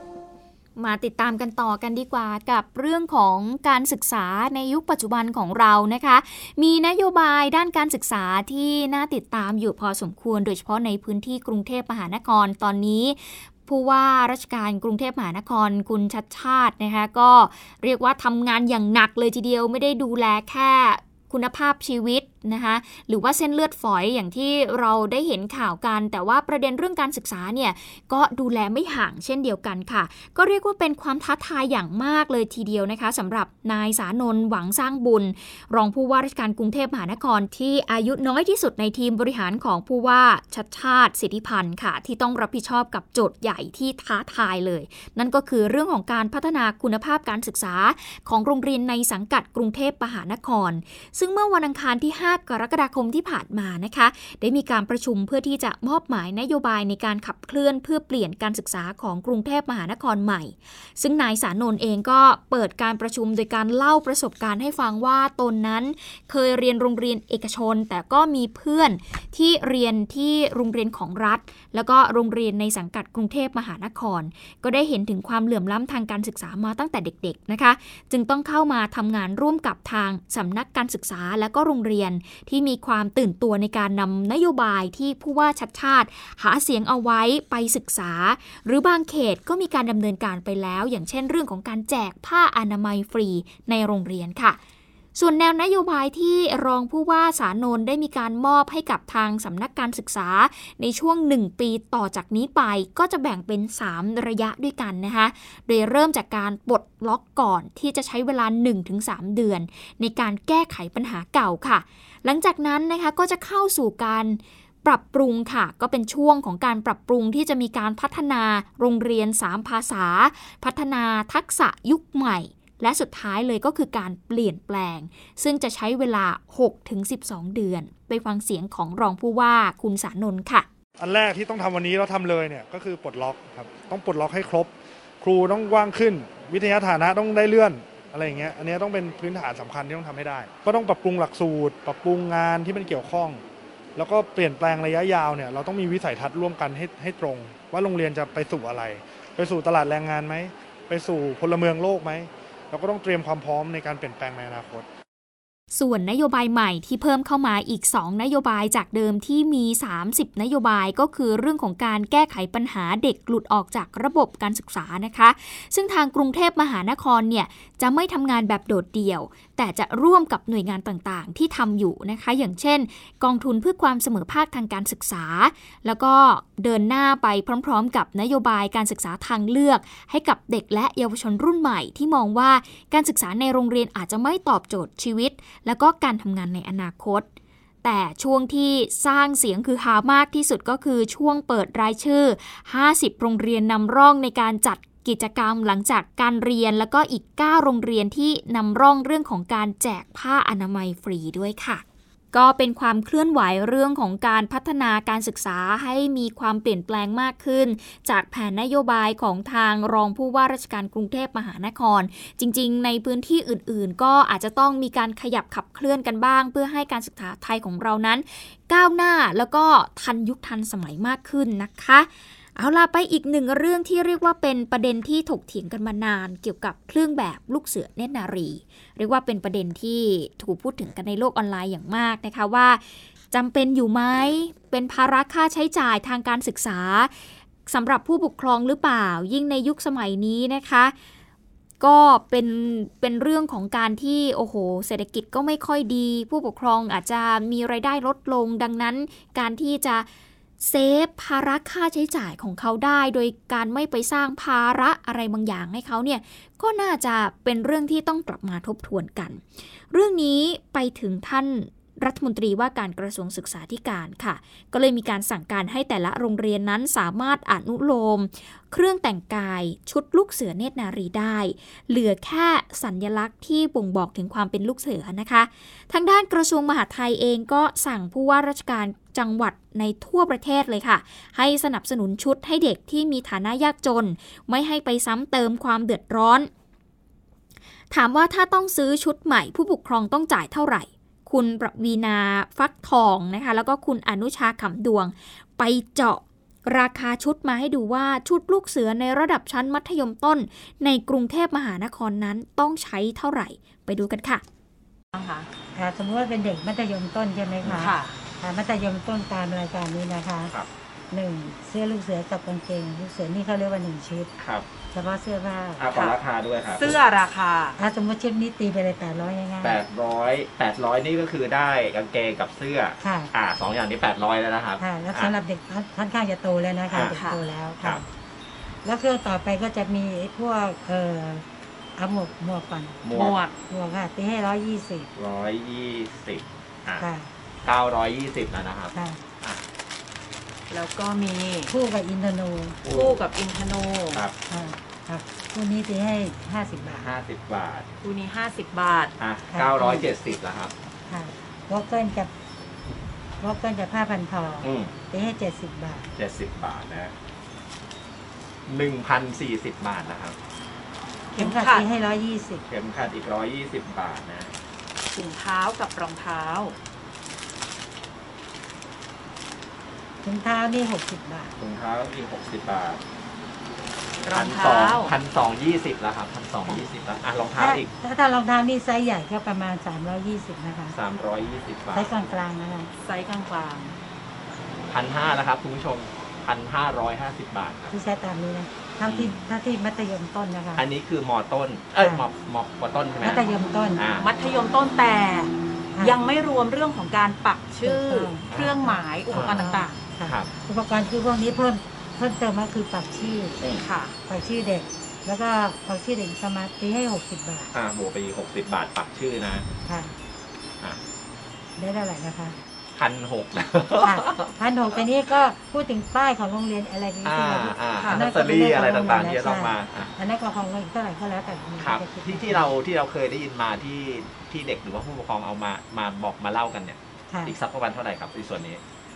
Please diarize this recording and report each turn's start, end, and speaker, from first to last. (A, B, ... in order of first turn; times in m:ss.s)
0:00.8-1:34.6 A
1:35.2-2:10.6 A
2:11.0-2:23.4 B
2:24.0-2:34.9 B
2:35.7-3:07.3 A
3:07.8-3:57.1 A
3:57.7-4:00.9 A
4:01.8-4:10.1 A
4:10.6-4:46.5 A
4:47.9-5:04.4 A
5:05.1-5:05.5 C
5:05.8-5:10.5 D
5:07.6-5:07.9 E
5:07.8-5:08.2 C
5:11.1-5:14.3 D
5:14.4-5:14.6 E
5:14.9-5:15.8 D
5:15.8-5:16.9 E
5:16.7-5:17.8 C
5:17.8-5:19.8 D
5:19.6-5:25.3 E
5:23.0-5:23.3 D
5:24.8-5:28.0 D
5:26.9-5:27.2 E
5:27.1-5:27.4 C
5:28.8-5:31.4 D
5:32.0-5:33.0 D
5:33.0-5:33.4 E
5:33.1-5:33.5 C
5:33.7-5:35.1 D
5:35.1-5:37.0 E
5:37.0-5:37.3 D
5:37.6-5:39.6 E
5:38.9-5:39.2 D
5:40.7-5:41.7 C
5:41.7-5:42.8 D
5:42.8-5:43.2 E
5:42.9-5:44.2 C
5:44.5-5:47.1 D
5:47.0-5:47.9 E
5:48.0-5:49.1 C
5:49.2-5:50.7 E
5:49.5-5:50.1 D
5:51.1-5:52.3 D
5:53.4-5:56.1 D
5:54.6-5:54.9 E
5:56.2-5:57.1 E
5:58.7-6:00.4 E
6:01.4-6:01.8 C
6:01.4-6:02.6 D
6:02.7-6:04.5 E
6:05.1-6:06.8 C
6:10.2-6:11.5 D
6:11.6-6:13.0 E
6:14.2-6:15.1 C
6:14.3-6:17.9 E
6:17.6-6:21.0 D
6:20.9-6:22.3 E
6:21.9-6:22.9 D
6:23.0-6:23.9 C
6:24.9-6:27.9 E
6:27.9-6:30.8 D
6:29.0-6:29.5 E
6:30.8-6:33.4 E
6:32.0-6:32.2 D
6:33.2-6:34.0 D
6:34.0-6:34.3 E
6:34.2-6:40.0 C
6:37.8-6:43.6 D
6:38.5-6:39.7 E
6:40.2-6:40.5 E
6:43.8-6:44.1 C
6:44.3-6:47.7 D
6:47.7-6:49.6 E
6:49.9-6:50.1 D
6:51.8-6:52.6 D
6:53.0-6:54.5 E
6:54.0-7:02.7 D
6:57.2-7:00.1 E
7:01.8-7:08.8 E
7:07.3-7:07.5 D